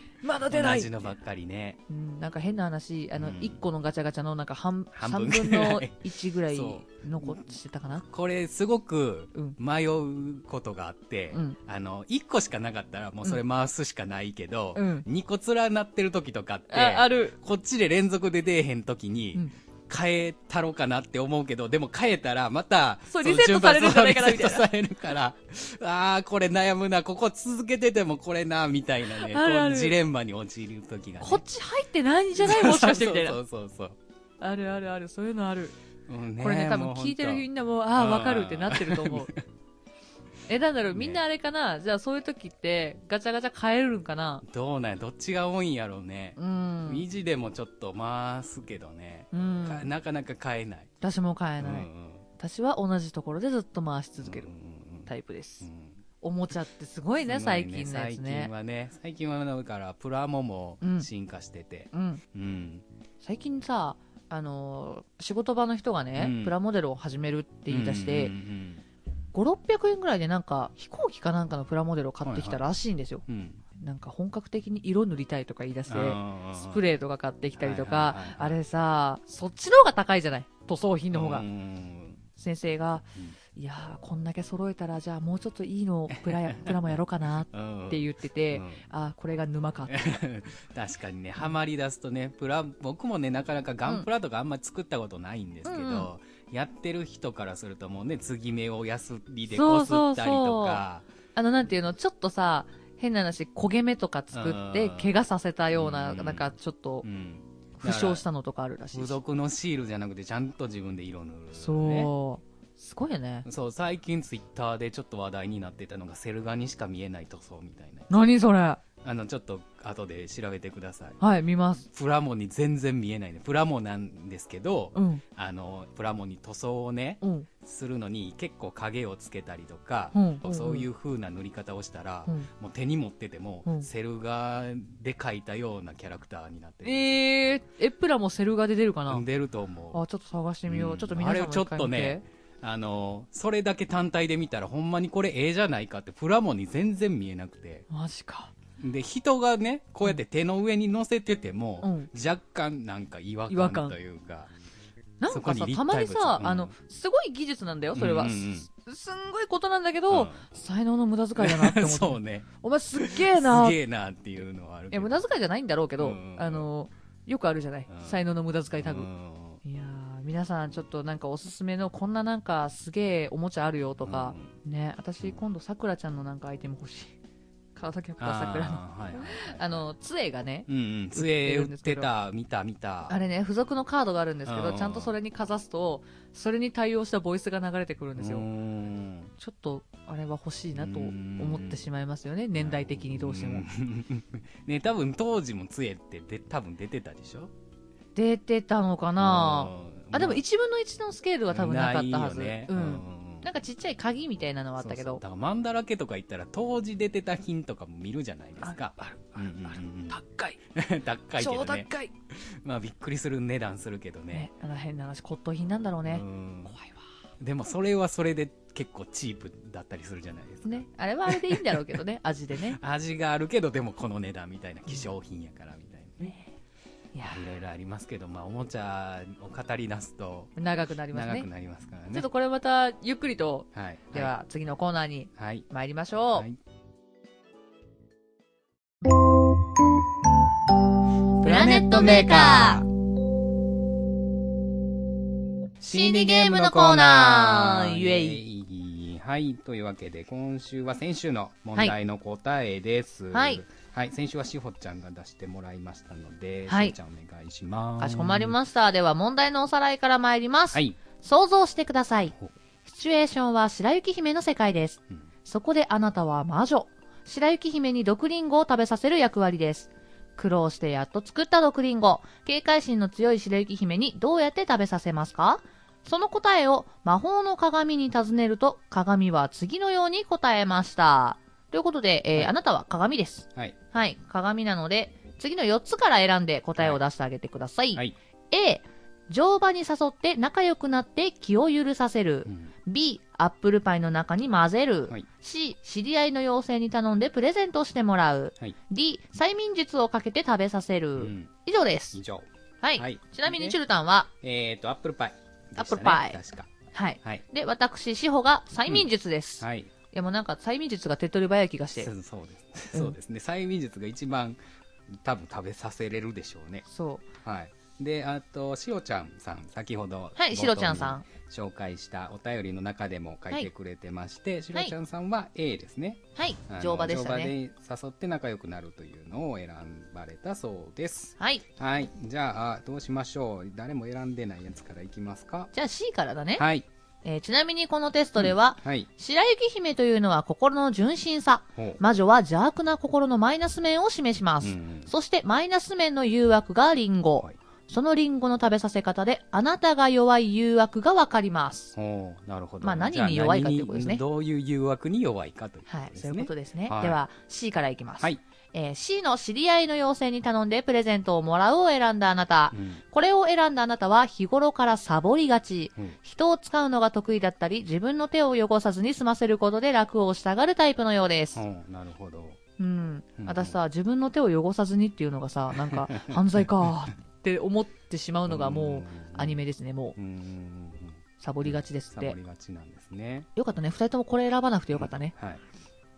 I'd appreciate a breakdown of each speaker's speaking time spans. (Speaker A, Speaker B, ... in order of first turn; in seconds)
Speaker A: 0.2-0.9, 1.9-8.0, 11.3-11.6, 14.7-15.1, 16.7-17.4, 23.1-24.7, 29.1-30.0, 31.2-33.4, 34.4-35.7, 36.4-39.3, 40.5-44.4, 46.4-47.0, 49.3-49.9, 51.0-51.9, 52.4-54.5, 55.1-55.7, 56.2-58.5, 60.8-61.1, 61.9-62.2, 63.2-68.3, 69.3-73.2, 73.8-81.4, 82.4-90.1, 95.6-96.1, 99.5-100.8, 101.4-107.1, 107.8-109.2, 111.5-113.5, 118.1-118.8, 121.2-121.9, 124.9-125.2, 127.2-127.5, 130.1-130.9, 136.8-139.2, 139.9-142.2, 147.9-148.5, 151.8-152.1, 153.5-154.0, 155.2-163.8, 164.9-169.1, 169.6-177.2, 177.7-182.1, 183.1-188.4, 189.4-193.6, 198.1-205.2, 208.6-210.6, 211.4-212.1, 214.3-217.0, 220.6-222.8, 227.1-227.4, 230.6-231.5, 232.1-236.5, 241.4-242.8, 245.9-248.4, 253.3-253.6, 256.7-256.9, 258.0-262.3, 262.9-302.2, 302.8-304.3, 305.8-306.4, 306.9-312.1, 316.9-317.3, 320.4-321.2, 326.4-327.5, 335.7-336.6, 337.2-351.9, 352.8-354.2, 355.9-371.6, 372.8-380.1, 381.4-382.4, 383.6-385.3
Speaker B: 0.5-1.8, 3.1-3.6, 4.9-7.4, 8.0-31.4, 32.4-34.0, 36.1-39.4, 40.9-41.2, 44.4-50.9, 51.6-52.2, 54.2-55.1, 55.6-56.0, 57.2-62.8, 66.2-66.5, 67.7-68.8, 72.2-72.6, 73.3-73.6, 75.9-76.8, 77.6-78.6, 81.1-82.2, 86.1-86.8, 87.5-88.8, 89.9-101.1, 104.3-105.1, 105.7-106.5, 107.0-108.2, 108.9-112.1, 113.4-118.2, 119.0-121.2, 121.9-137.1, 139.1-140.0, 140.7-147.9, 148.8-154.5, 155.3-156.7, 157.9-158.7, 160.1-160.4, 161.4-165.2, 166.0-166.7, 167.9-168.2, 168.7-169.6, 174.0-174.6, 178.2-179.9, 180.7-183.2, 184.4-185.1, 188.2-189.3, 190.8-191.8, 192.6-197.5, 199.2-200.4, 201.5-203.5, 204.8-210.2, 210.7-214.5, 216.1-216.8, 217.4-221.9, 222.6-226.4, 227.2-230.6, 231.1-232.2, 233.7-234.3, 235.4-235.7, 241.4-242.9, 245.8-258.6, 260.7-261.0, 292.4-292.7, 301.2-301.5, 302.1-303.8, 304.4-307.4, 309.6-309.9, 312.0-314.6, 315.1-316.9, 317.4-335.7, 336.6-336.9, 338.4-339.1, 344.6-345.1, 351.9-357.2, 362.7-363.0, 371.6-372.6, 373.4-373.8, 375.7-376.6, 378.5-379.6, 380.1-383.5, 384.9-385.6